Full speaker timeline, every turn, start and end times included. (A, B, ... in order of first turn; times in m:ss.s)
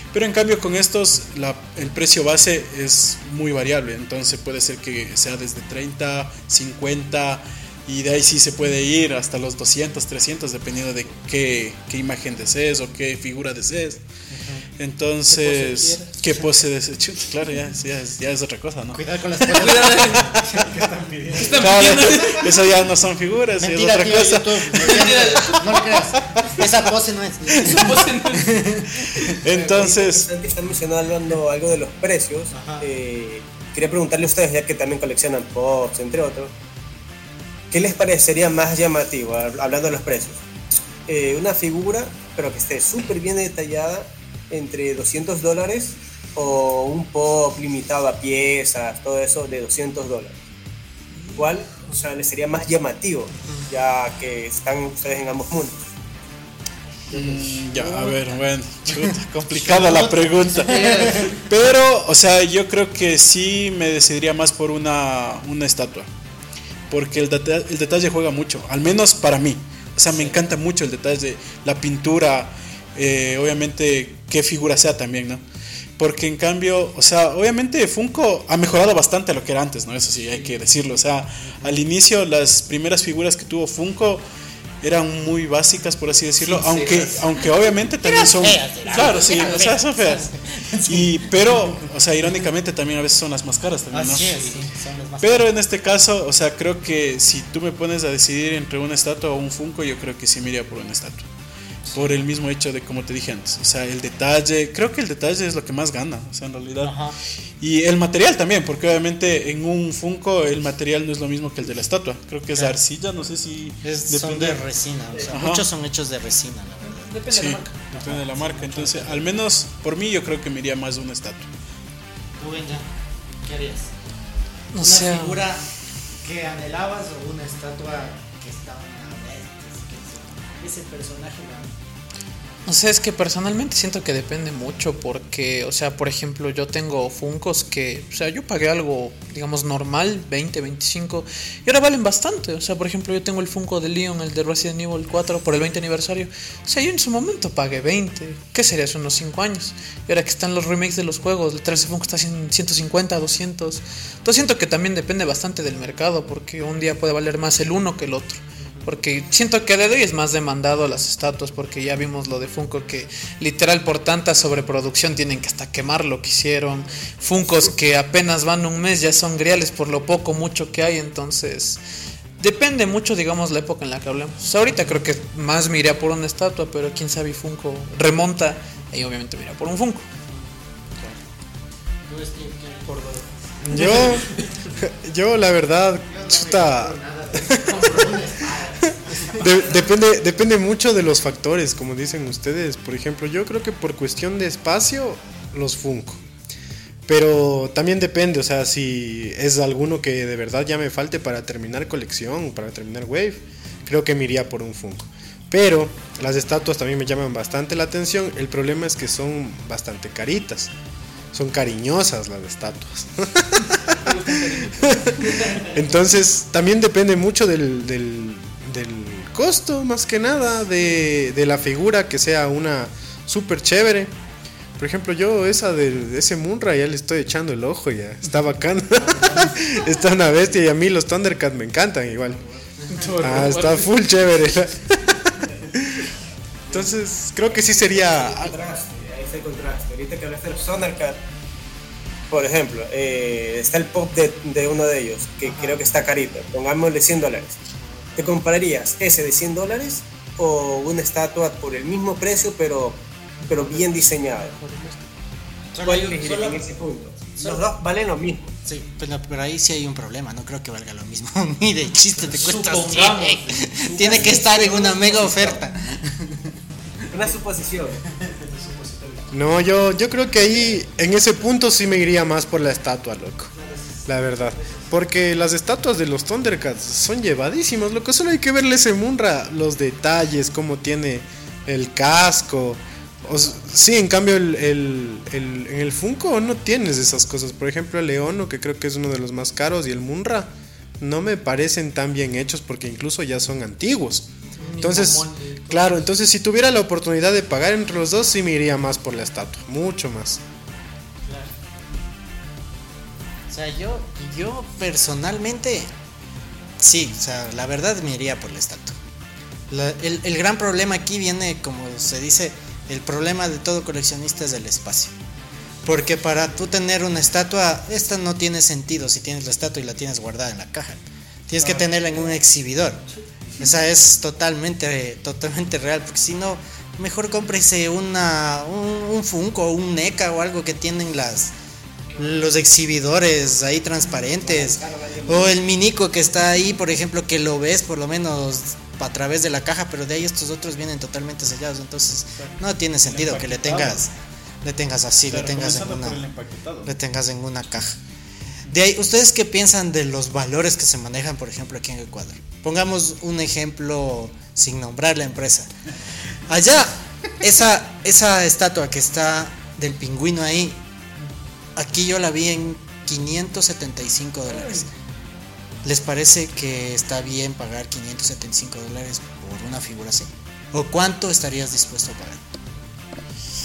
0:00.1-0:14.0 A
0:14.3-0:14.7 B
0:14.8-0:19.0 A
0:15.4-0:16.0 C
0:18.9-0:22.1 B
0:19.5-0:20.4 C
0:21.3-0:22.4 C
0:21.5-0:25.6 A
0:23.6-0:29.0 B
0:24.8-0:25.6 C
0:26.2-0:26.5 A
0:27.5-0:28.1 A
0:27.6-0:28.6 C
0:29.0-0:30.3 A
0:29.4-0:36.5 D
0:32.5-0:32.9 B
0:37.7-0:40.4 D
0:41.1-0:50.4 D
0:51.4-0:55.8 D
0:57.1-1:06.1 A
0:58.9-1:01.3 B
1:00.7-1:01.3 C
1:06.9-1:15.4 A
1:10.1-1:10.4 B
1:16.0-1:24.2 A
1:24.8-1:34.5 A
1:26.5-1:27.2 C
1:28.0-1:31.2 B
1:33.9-1:35.5 B
1:35.2-1:41.3 A
1:41.9-1:42.2 B
1:41.9-1:47.0 A
1:46.8-1:47.2 B
1:47.6-1:54.6 A
1:53.8-1:57.2 B
1:55.3-1:55.7 A
1:56.9-1:57.7 C
1:57.3-2:01.5 A
1:57.8-1:59.2 B
2:02.4-2:02.9 B
2:03.4-2:03.9 B
2:04.7-2:05.5 C
2:04.8-2:05.6 B
2:06.2-2:11.8 B
2:12.7-2:51.8 C
2:52.4-3:00.1 C
3:02.1-3:03.0 B
3:02.9-3:03.2 C
3:03.6-3:04.0 B
3:03.6-3:04.2 E
3:03.8-3:04.3 C
3:04.8-3:08.2 E
3:06.1-3:09.8 B
3:09.2-3:16.2 E
3:17.1-3:30.7 E
3:31.3-3:44.1 E
3:34.1-3:35.0 C
3:44.8-3:52.4 E
3:52.9-3:53.9 C
3:53.1-3:56.1 E
3:56.7-3:58.6 E
3:57.9-4:01.2 D
4:02.3-4:07.6 D
4:05.5-4:05.8 B
4:07.8-4:08.3 B
4:08.2-4:14.5 D
4:13.4-4:15.0 C
4:15.7-4:16.7 B
4:15.8-4:18.5 D
4:17.4-4:17.6 B
4:18.6-4:26.6 B
4:22.4-4:25.6 C
4:27.1-4:28.0 D
4:28.6-4:29.2 A
4:29.3-4:33.5 E
4:33.6-4:34.0 C
4:34.1-5:00.4 E
4:54.6-4:56.0 C
5:01.2-5:01.5 B
5:03.5-5:05.9 B
5:06.8-5:09.0 B
5:09.7-5:15.2 B
5:15.8-5:23.0 B
5:21.6-5:21.9 A
5:23.6-5:31.5 B
5:32.2-5:46.2 B
5:34.4-5:35.6 D
5:42.4-5:44.0 A
5:45.3-5:46.9 A
5:46.8-5:48.0 B
5:48.7-5:55.7 B
5:56.5-6:00.8 B
6:01.8-6:04.9 B
6:05.8-6:12.4 B